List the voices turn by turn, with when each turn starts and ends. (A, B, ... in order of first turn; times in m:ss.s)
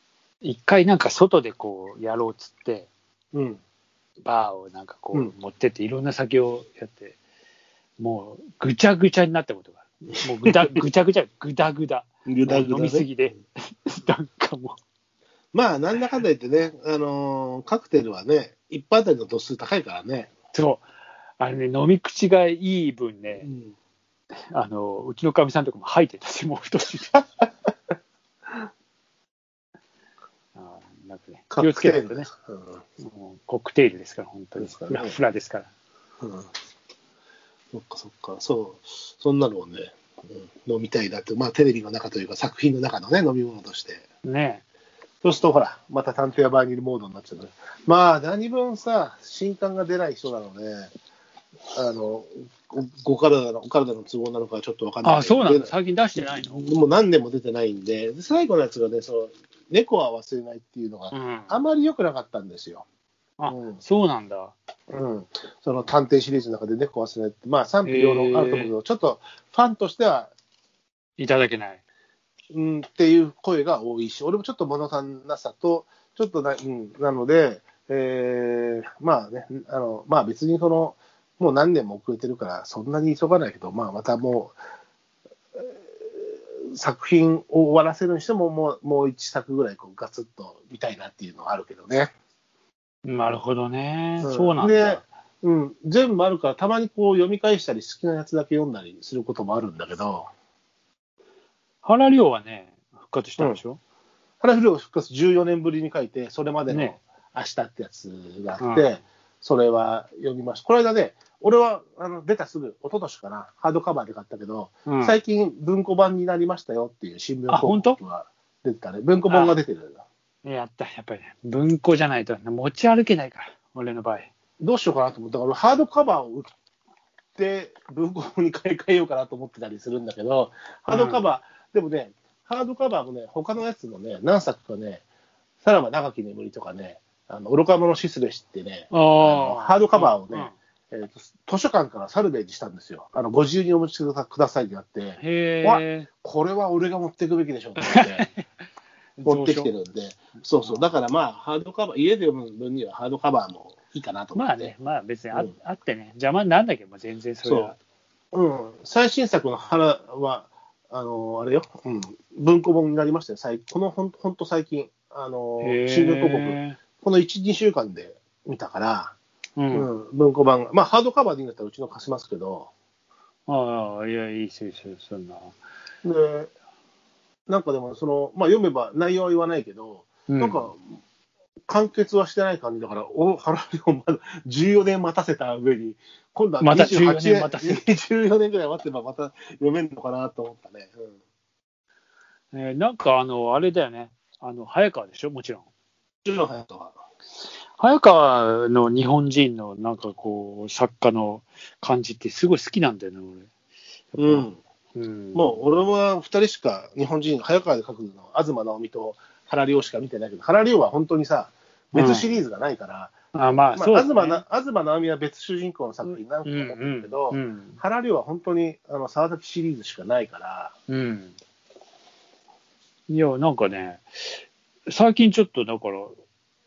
0:00.4-0:02.9 A
0:03.3-0:03.6 B
0:04.2-0:07.2 A
0:08.0-0:14.8 A
0:10.5-0:10.8 B
0:12.3-0:13.1 B
0:15.5-0:20.3 B
0:20.5-0:20.8 A
0:21.4-0:23.5 A
0:23.4-0:23.7 B
0:24.5-0:27.2 A
0:30.5-0:32.3 A
0:31.5-0:32.8 B
0:33.0-0:35.7 A
0:34.6-0:35.1 B
0:36.2-0:36.5 B
0:37.7-0:44.0 B
0:44.2-0:44.6 A
0:45.2-0:50.9 B
0:51.7-1:02.8 B
0:55.0-0:56.7 A
1:01.1-1:01.5 A
1:03.4-1:04.5 A
1:03.5-1:03.8 B
1:04.9-1:10.3 B
1:07.8-1:08.7 A
1:11.2-1:11.8 A
1:12.5-1:24.6 B
1:25.6-1:32.1 B
1:33.0-1:35.0 A
1:34.2-1:40.3 B
1:41.8-1:43.8 A
1:44.4-2:00.0 B
1:46.7-1:47.0 A
1:48.6-1:48.9 A
1:54.9-1:55.2 A
1:57.5-1:58.0 A
1:59.3-1:59.6 A
2:00.4-2:04.3 A
2:04.6-2:06.5 B
2:07.4-2:15.0 B
2:10.9-2:11.2 A
2:15.6-2:28.3 B
2:18.9-2:20.6 A
2:25.2-2:26.1 A
2:27.8-2:28.4 A
2:29.2-2:29.7 A
2:29.2-2:34.7 B
2:30.6-2:30.9 A
2:34.3-2:37.8 A
2:37.4-2:37.8 B
2:38.3-2:49.2 B
2:45.6-2:46.8 A
2:49.6-2:49.9 A
2:49.7-2:52.7 B
2:53.5-2:55.6 A
2:56.0-2:56.5 B
2:57.5-3:00.8 B
3:00.3-3:00.7 A
3:01.7-3:11.1 B
3:06.6-3:07.8 A
3:12.5-3:15.6 A
3:16.2-3:17.0 B
3:17.8-3:23.5 A
3:24.1-3:25.6 A
3:24.2-3:24.6 B
3:25.3-3:33.1 B
3:31.9-3:32.3 A
3:33.3-3:34.4 A
3:33.8-3:40.7 B
3:36.1-3:37.8 A
3:40.9-3:41.3 A
3:43.1-3:46.2 A